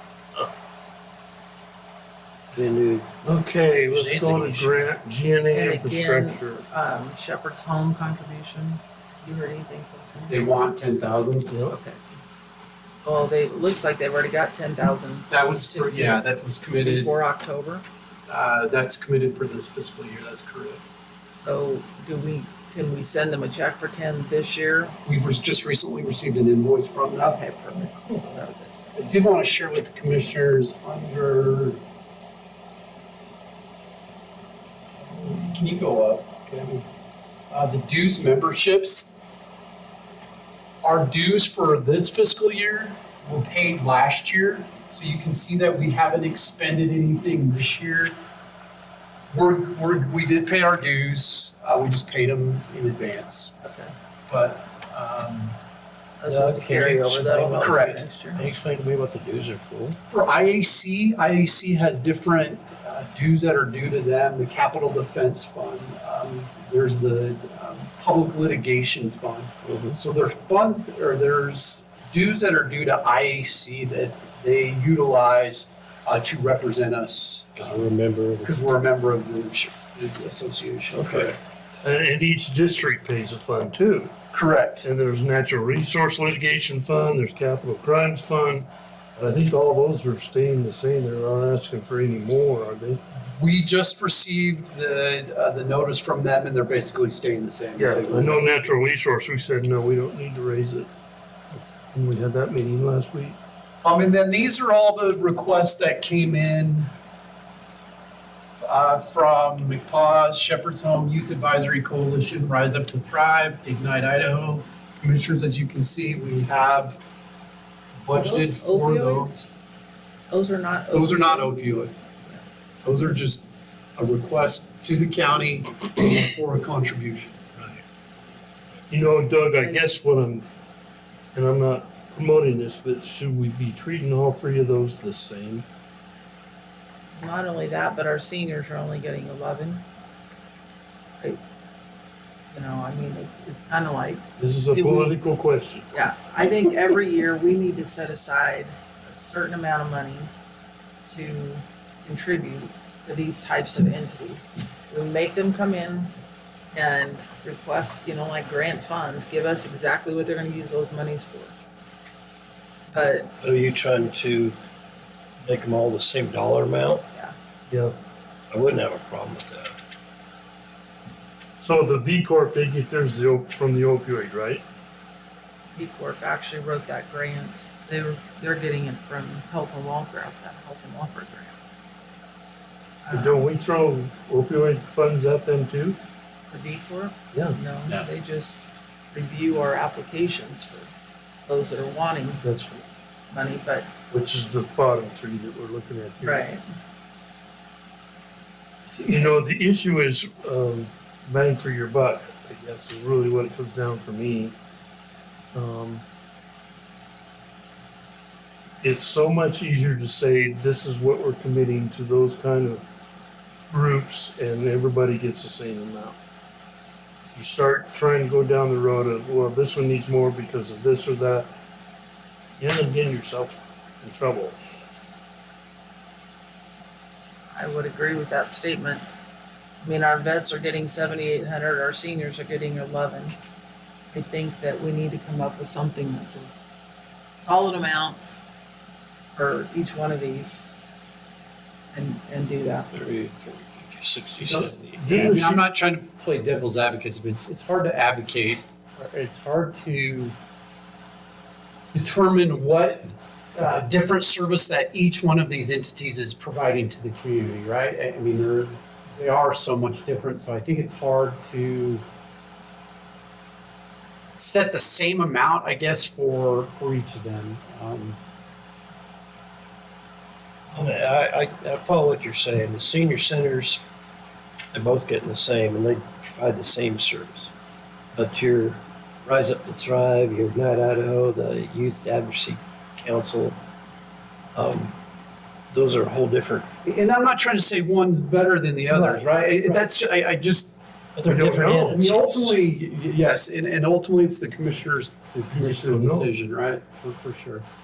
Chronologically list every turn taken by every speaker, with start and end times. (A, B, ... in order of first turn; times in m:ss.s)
0:02.5-0:03.3 A
0:03.2-0:06.6 B
0:04.0-0:04.6 C
0:04.0-0:04.3 A
0:05.5-0:10.6 D
0:10.3-0:11.5 C
0:11.7-0:12.0 D
0:13.0-0:16.2 D
0:15.3-0:17.2 C
0:16.8-0:17.9 D
0:18.3-0:20.8 C
0:21.4-0:25.0 D
0:25.0-0:27.4 C
0:27.2-0:29.1 D
0:29.0-0:31.8 C
0:35.2-0:36.8 C
0:37.5-0:39.1 C
0:40.8-0:48.2 C
0:49.3-0:53.5 C
0:53.6-0:53.9 D
0:54.3-0:55.6 C
0:56.2-0:58.4 D
0:56.3-1:00.0 A
0:57.6-0:58.0 C
1:00.1-1:17.9 C
1:09.6-1:10.0 A
1:17.6-1:18.6 A
1:18.4-1:21.4 C
1:20.9-1:21.4 A
1:21.8-1:24.1 B
1:24.3-1:24.9 C
1:24.8-1:33.0 B
1:33.4-1:38.7 C
1:37.8-1:40.9 B
1:41.9-1:43.4 B
1:43.8-1:46.9 C
1:48.6-1:57.0 C
1:58.0-1:59.5 C
1:58.1-1:59.3 D
2:00.3-2:02.4 D
2:00.9-2:01.9 C
2:02.8-2:03.4 C
2:04.0-2:07.4 C
2:08.9-2:10.5 B
2:09.6-2:09.9 D
2:11.3-2:15.6 B
2:17.2-2:19.8 D
2:22.5-2:25.2 D
2:24.4-2:25.9 B
2:25.9-2:30.3 D
2:31.1-2:36.1 D
2:36.7-2:41.6 D
2:42.9-2:43.3 D
2:43.4-2:44.6 A
2:45.4-2:47.0 A
2:47.7-2:48.0 B
2:48.5-2:49.8 A
2:51.6-2:54.6 B
2:55.8-3:01.6 D
3:03.0-3:03.5 D
3:03.1-3:06.0 B
3:06.5-3:10.9 D
3:07.3-3:07.6 B
3:11.5-3:12.4 D
3:12.4-3:12.8 B
3:13.3-3:13.9 D
3:14.1-3:16.5 B
3:16.2-3:16.6 D
3:19.0-3:24.6 B
3:25.5-3:26.0 B
3:28.8-3:32.8 B
3:33.7-3:36.2 B
3:37.3-3:41.5 B
3:42.6-3:44.6 B
3:47.6-3:49.0 D
3:49.8-3:53.3 D
3:54.1-3:56.7 D
3:57.5-3:58.2 D
3:59.4-4:00.6 D
4:01.9-4:02.9 D
4:02.9-4:05.0 A
4:04.4-4:10.4 C
4:04.5-4:05.6 B
4:11.9-4:22.0 C
4:24.4-4:28.2 C
4:30.7-4:33.8 A
4:34.7-4:37.5 A
4:38.2-4:43.6 A
4:44.6-4:45.0 A
4:45.7-4:46.7 A
4:46.8-4:50.8 C
4:51.2-4:52.5 A
4:51.3-4:52.0 B
4:51.3-4:57.6 C
4:55.5-4:56.3 B